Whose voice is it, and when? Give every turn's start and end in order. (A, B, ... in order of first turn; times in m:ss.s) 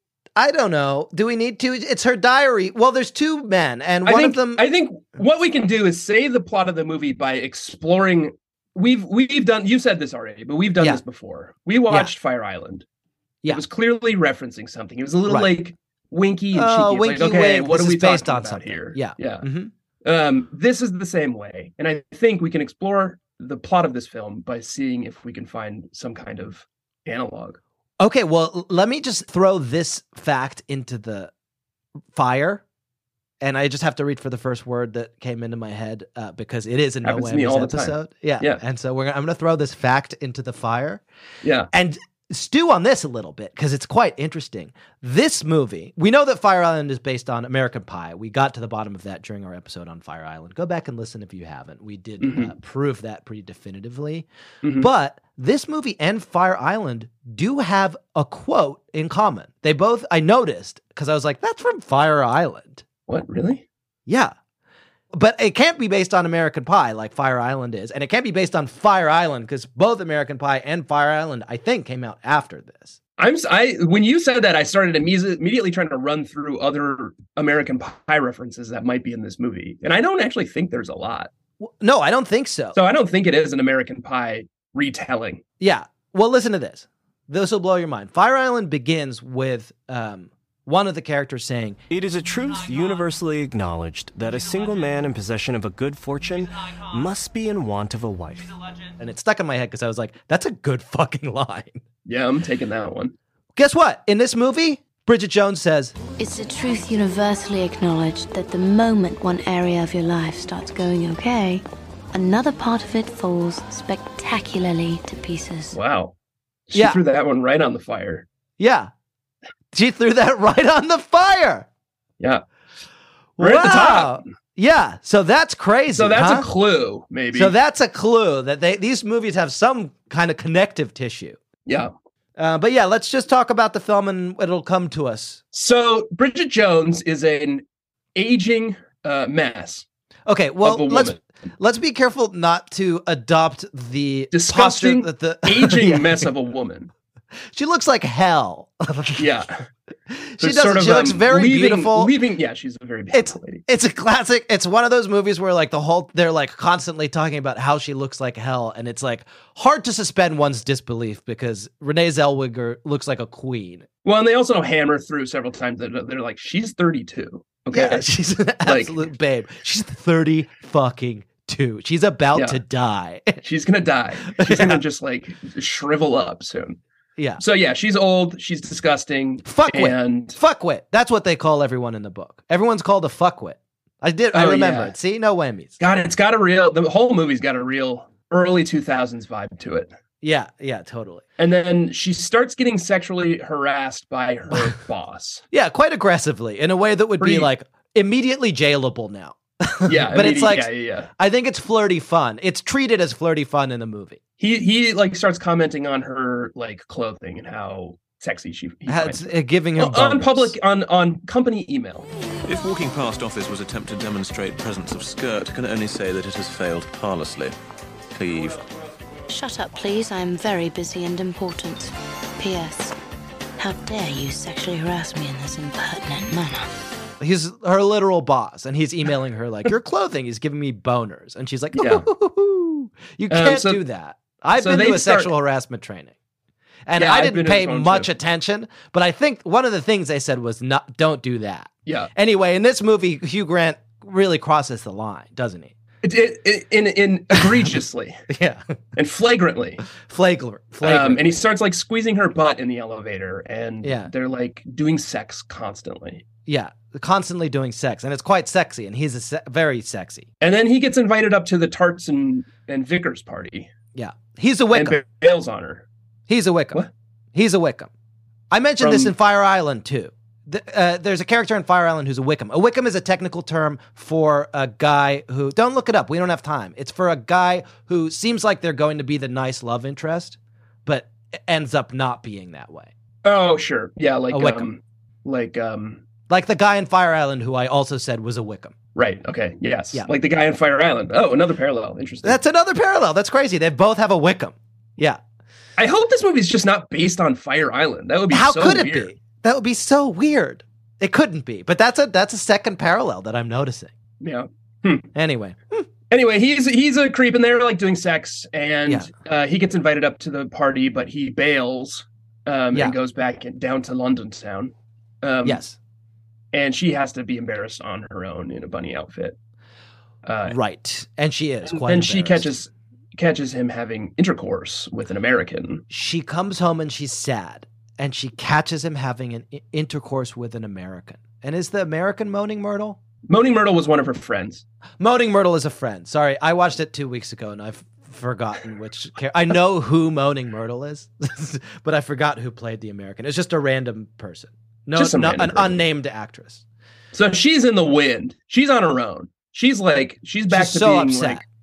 0:00.4-0:04.6 A
0:04.0-0:12.8 B
0:13.5-0:19.4 B
0:15.3-0:15.5 A
0:16.5-0:19.7 A
0:20.0-0:27.6 B
0:28.0-0:31.3 A
0:32.1-0:32.6 A
0:33.4-0:41.0 A
0:37.0-0:38.6 B
0:41.4-0:41.7 B
0:41.7-1:02.8 A
0:52.2-0:52.5 B
0:54.6-0:54.9 B
1:03.1-1:03.6 B
1:04.1-1:04.3 A
1:05.1-1:13.0 A
1:13.2-1:21.3 B
1:21.6-1:22.8 A
1:22.7-1:25.4 B
1:25.6-1:31.8 A
1:31.9-1:38.5 C
1:39.0-1:41.8 A
1:42.1-1:43.1 B
1:43.6-1:46.0 A
1:46.2-1:55.8 D
1:55.7-1:56.1 B
1:56.7-1:58.3 B
1:56.7-1:57.0 A
1:58.6-1:58.9 A
1:59.7-2:01.7 A
2:03.4-2:06.5 A
2:03.4-2:04.3 B
2:05.9-2:07.5 B
2:07.3-2:11.4 A
2:11.6-2:11.9 B
2:12.4-2:15.4 A
2:15.5-2:17.6 B
2:18.1-2:19.9 B
2:20.3-2:26.2 A
2:20.6-2:21.2 B
2:24.3-2:26.9 B
2:27.5-2:29.4 A
2:29.2-2:29.6 B
2:30.1-2:32.1 A
2:30.4-2:33.6 B
2:33.1-2:43.9 A
2:44.0-2:48.1 B
2:47.7-2:53.4 A
2:48.6-2:49.0 B
2:52.4-2:52.6 B
2:53.4-2:56.8 B
2:54.3-2:54.8 A
2:57.4-3:00.4 B
2:59.4-3:05.8 A
3:04.3-3:04.9 B
3:05.8-3:09.9 B
3:10.2-3:11.2 A
3:11.4-3:15.4 B
3:15.5-3:24.2 A
3:17.2-3:17.5 B
3:19.9-3:21.1 B
3:24.4-3:32.1 B
3:28.9-3:30.6 A
3:32.4-3:37.6 E
3:38.1-3:38.6 E
3:39.3-3:42.9 D
3:43.6-3:46.7 D
3:47.2-3:56.1 A
3:51.8-3:52.1 B
3:53.3-3:53.8 B
3:54.6-3:55.3 B
3:56.9-4:05.7 A
3:57.0-3:58.1 B
4:06.0-4:08.2 B
4:07.3-4:07.7 A
4:08.3-4:08.8 A
4:09.0-4:09.8 B
4:10.0-4:11.4 A
4:10.8-4:16.2 B
4:13.8-4:14.1 A
4:16.4-4:20.3 A
4:20.4-4:23.7 B
4:23.9-4:25.0 A
4:24.7-4:25.9 B
4:26.3-4:27.9 A
4:28.5-4:42.9 A
4:28.8-4:29.1 B
4:43.2-4:46.0 B
4:44.3-4:44.7 A
4:46.3-4:48.8 A
4:48.9-4:52.4 B
4:52.2-4:55.2 A
4:55.8-4:59.1 B
4:58.3-5:03.9 A
5:04.2-5:05.1 B
5:05.1-5:05.9 A
5:06.1-5:15.6 B
5:15.4-5:15.8 A
5:16.5-5:19.4 B
5:20.2-5:20.6 B
5:20.4-5:22.5 A
5:21.6-5:25.8 B
5:25.9-5:33.0 A
5:33.3-5:34.6 B
5:35.0-5:46.6 A
5:44.9-5:45.8 B
5:47.1-5:51.4 B
5:50.5-5:51.4 A